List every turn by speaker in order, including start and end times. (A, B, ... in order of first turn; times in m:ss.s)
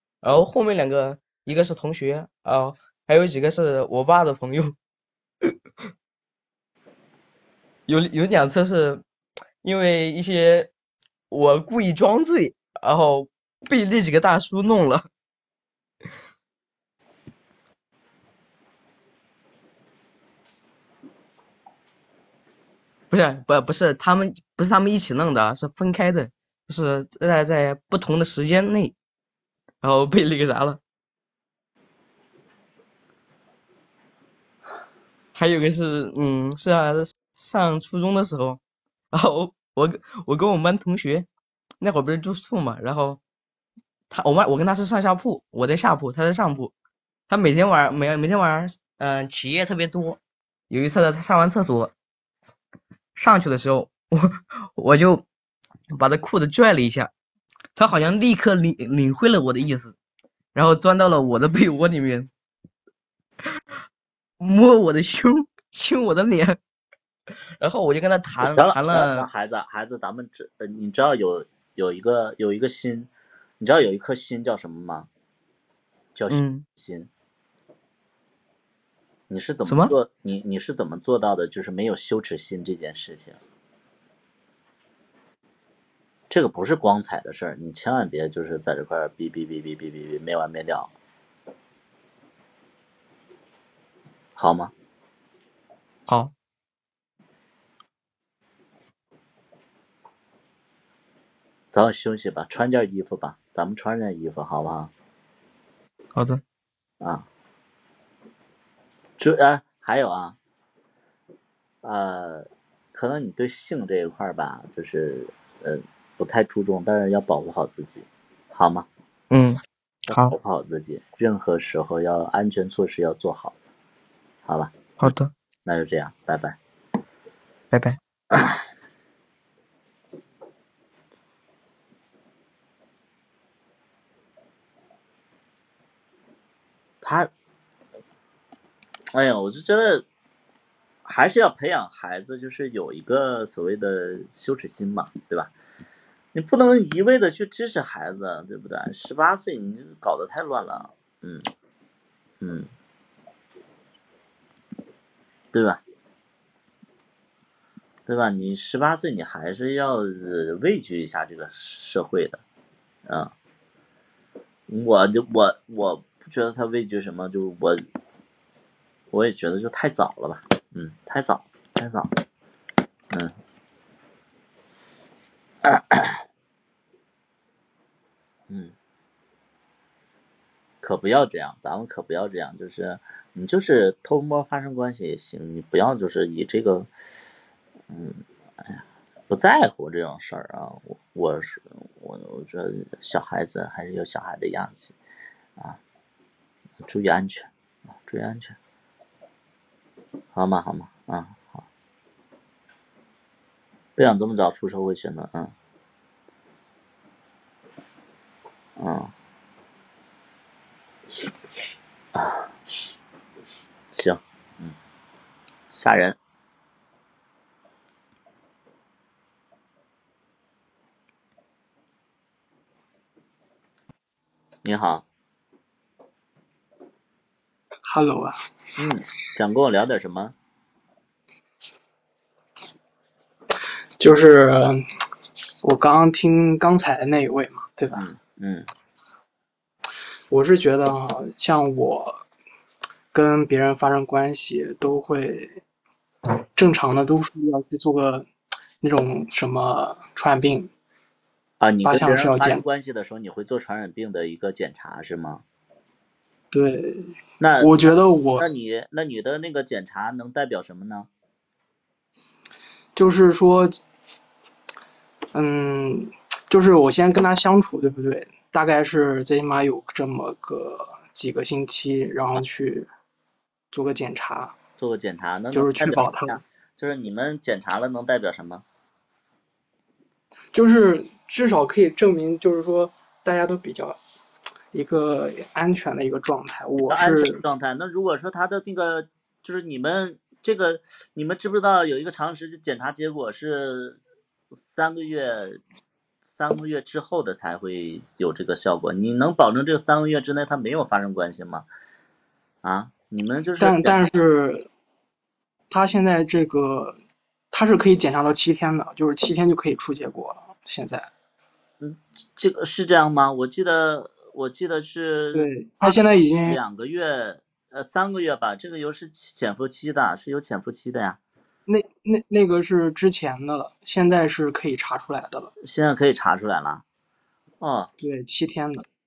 0:00.2-0:04.8 A
0:07.9-0:09.0 A
0:09.6-0:10.7 A
0:11.3-0:15.1 A
0:23.1-0:29.0 A
0:29.8-0:30.8 A
0:35.4-0:38.6 A
0:39.1-0:41.3 A
0:41.8-0:43.2 A
0:44.1-0:46.7 A
0:47.3-0:50.2 A
0:50.7-0:51.9 A
0:53.2-0:55.2 A
0:55.9-0:57.1 A
0:57.8-1:00.0 A
1:00.6-1:02.3 A
1:04.4-1:06.6 A
1:07.6-1:09.3 A
1:08.4-1:15.1 B
1:16.2-1:17.1 B
1:16.3-1:16.6 A
1:19.3-1:23.4 B
1:19.7-1:19.9 A
1:26.3-1:30.9 B
1:34.4-1:34.7 B
1:36.1-1:36.3 A
1:41.7-1:44.9 B
1:46.2-1:46.4 A
1:47.0-1:47.3 B
1:49.2-1:50.4 B
1:51.8-1:58.9 B
1:59.3-2:00.4 A
2:00.1-2:03.5 B
2:04.5-2:04.7 B
2:05.0-2:05.3 A
2:05.7-2:06.6 B
2:07.7-2:08.0 A
2:17.0-2:17.3 B
2:19.1-2:20.1 B
2:21.1-2:25.5 B
2:26.3-2:31.4 B
2:32.4-2:32.7 B
2:35.5-2:35.8 B
2:38.1-2:42.4 B
2:43.1-2:43.3 B
2:44.7-2:47.8 B
2:49.1-2:52.1 B
2:55.6-2:56.2 B
2:58.5-2:58.7 B
3:00.8-3:06.9 B
3:07.9-3:15.0 B
3:16.8-3:17.5 B
3:18.0-3:18.6 B
3:20.3-3:21.6 B
3:24.0-3:25.5 B
3:28.8-3:29.1 B
3:32.2-3:32.5 B
3:33.9-3:34.8 B
3:35.7-3:36.2 B
3:44.6-3:45.0 B
3:47.9-3:48.4 C
3:48.8-3:50.3 B
3:54.0-3:54.9 C
3:55.6-3:58.1 C
3:57.9-3:58.7 B
4:00.3-4:02.2 C
4:03.1-4:05.6 C
4:06.6-4:08.3 C
4:08.8-4:10.7 C
4:11.6-4:15.4 B
4:11.8-4:12.6 C
4:16.5-4:18.5 C
4:17.4-4:17.8 B
4:18.4-4:21.1 B
4:23.0-4:23.8 C
4:25.3-4:32.9 C
4:33.7-4:34.6 C
4:34.8-4:38.6 B
4:35.5-4:36.4 C
4:40.5-4:44.0 C
4:44.7-4:47.4 C
4:46.9-4:54.0 B
4:54.5-4:55.6 B
4:56.2-5:01.7 B
5:02.6-5:04.0 B
5:03.6-5:04.7 C
5:05.7-5:07.0 C
5:07.5-5:11.1 C
5:11.8-5:21.2 B
5:15.3-5:16.6 C
5:21.7-5:25.5 C
5:25.6-5:26.8 B
5:27.6-5:27.9 B
5:28.0-5:28.8 C